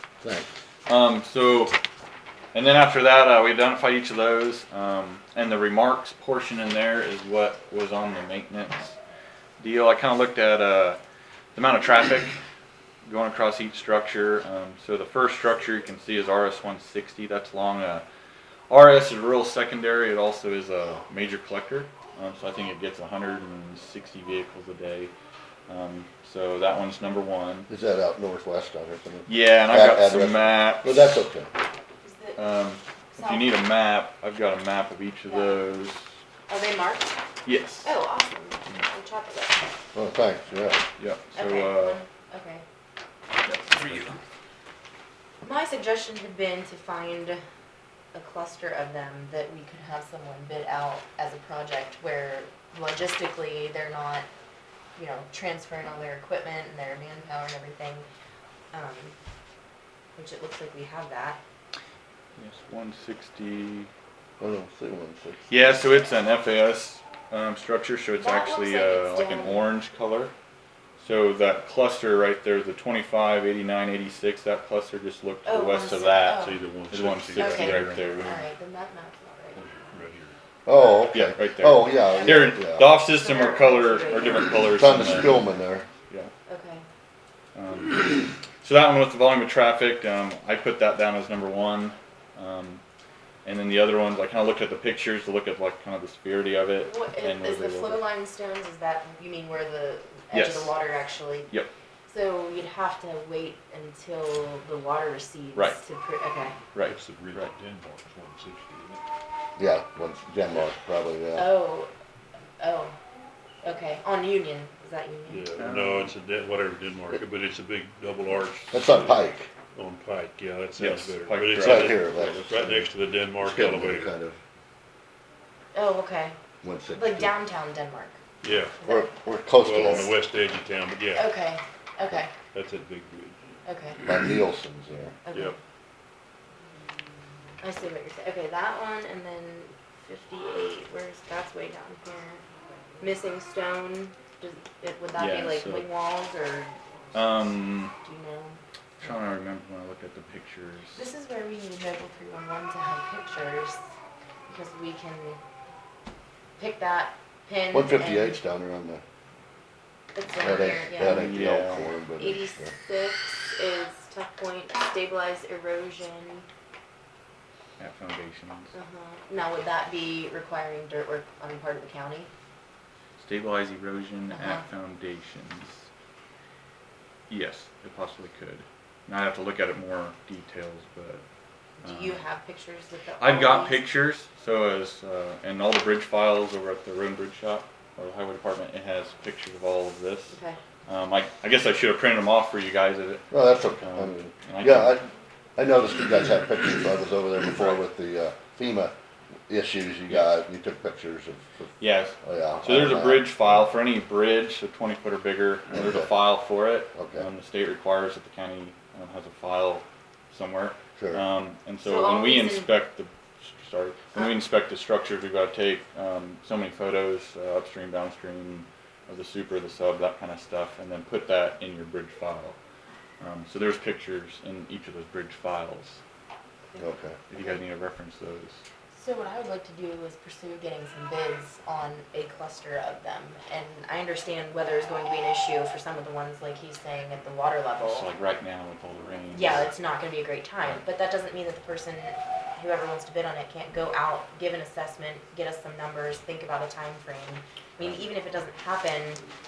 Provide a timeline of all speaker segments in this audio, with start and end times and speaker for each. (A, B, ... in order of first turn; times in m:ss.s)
0:00.2-0:00.5 A
0:00.9-0:01.8 B
0:02.5-0:09.0 B
0:09.6-0:11.0 B
0:11.6-0:12.3 B
0:13.0-0:18.0 B
0:18.7-0:25.1 B
0:25.7-0:27.7 B
0:27.7-0:31.5 A
0:29.3-0:31.2 B
0:32.0-0:32.4 C
0:32.4-0:36.2 B
0:33.1-0:33.6 C
0:35.3-0:35.7 C
0:36.5-0:37.2 C
0:37.4-0:37.9 B
0:37.8-0:39.7 C
0:39.9-0:40.8 A
0:41.0-0:42.0 B
0:41.3-0:42.6 C
0:43.4-0:44.2 B
0:45.4-0:47.4 C
0:48.1-0:54.3 C
0:55.0-0:58.0 C
0:58.7-0:59.2 C
1:00.2-1:01.4 C
1:02.4-1:03.9 B
1:04.4-1:05.5 A
1:05.5-1:10.3 B
1:08.2-1:09.7 C
1:11.0-1:18.4 B
1:15.4-1:16.6 C
1:16.4-1:18.4 D
1:17.4-1:19.6 C
1:19.6-1:20.4 D
1:20.7-1:22.9 A
1:21.1-1:25.3 B
1:22.0-1:24.7 C
1:24.8-1:25.9 A
1:26.5-1:26.8 C
1:27.6-1:32.8 B
1:33.4-1:38.0 B
1:36.8-1:41.5 C
1:40.3-1:40.8 B
1:42.1-1:46.6 C
1:46.7-1:47.5 B
1:46.8-1:49.0 D
1:49.6-1:51.5 A
1:51.4-1:51.9 C
1:52.6-1:53.0 C
1:53.6-1:55.4 C
1:55.3-2:04.1 D
1:55.6-1:56.1 B
1:58.7-1:59.5 A
2:00.8-2:02.0 B
2:01.5-2:04.4 A
2:05.7-2:06.4 C
2:06.6-2:07.3 A
2:06.9-2:08.2 C
2:08.4-2:08.8 D
2:08.8-2:09.1 C
2:08.8-2:10.1 A
2:09.6-2:11.3 D
2:11.2-2:12.3 C
2:12.5-2:13.4 D
2:13.6-2:14.0 C
2:14.0-2:15.2 A
2:15.3-2:15.6 C
2:17.6-2:22.4 C
2:23.0-2:27.4 C
2:25.1-2:25.9 B
2:27.1-2:27.9 B
2:27.9-2:28.6 C
2:29.0-2:31.1 B
2:31.0-2:33.8 C
2:34.5-2:35.4 C
2:36.6-2:38.4 C
2:37.7-2:39.0 A
2:40.2-2:41.5 C
2:40.4-2:42.7 A
2:40.5-2:41.9 B
2:42.2-2:46.5 C
2:47.8-2:48.7 B
2:48.7-2:52.3 C
2:53.2-2:55.9 B
2:54.3-2:54.6 C
2:57.3-3:01.2 B
3:01.8-3:03.8 C
3:01.8-3:02.2 B
3:03.2-3:15.0 B
3:10.3-3:10.6 C
3:13.3-3:18.9 A
3:19.5-3:23.3 A
3:21.8-3:42.6 B
3:25.7-3:26.2 A
3:26.9-3:27.3 A
3:31.0-3:31.2 A
3:31.8-3:32.7 C
3:43.2-3:46.0 B
3:46.8-3:47.2 A
3:47.3-3:48.6 B
3:48.9-3:58.1 C
3:57.8-3:59.7 B
3:59.3-4:09.2 C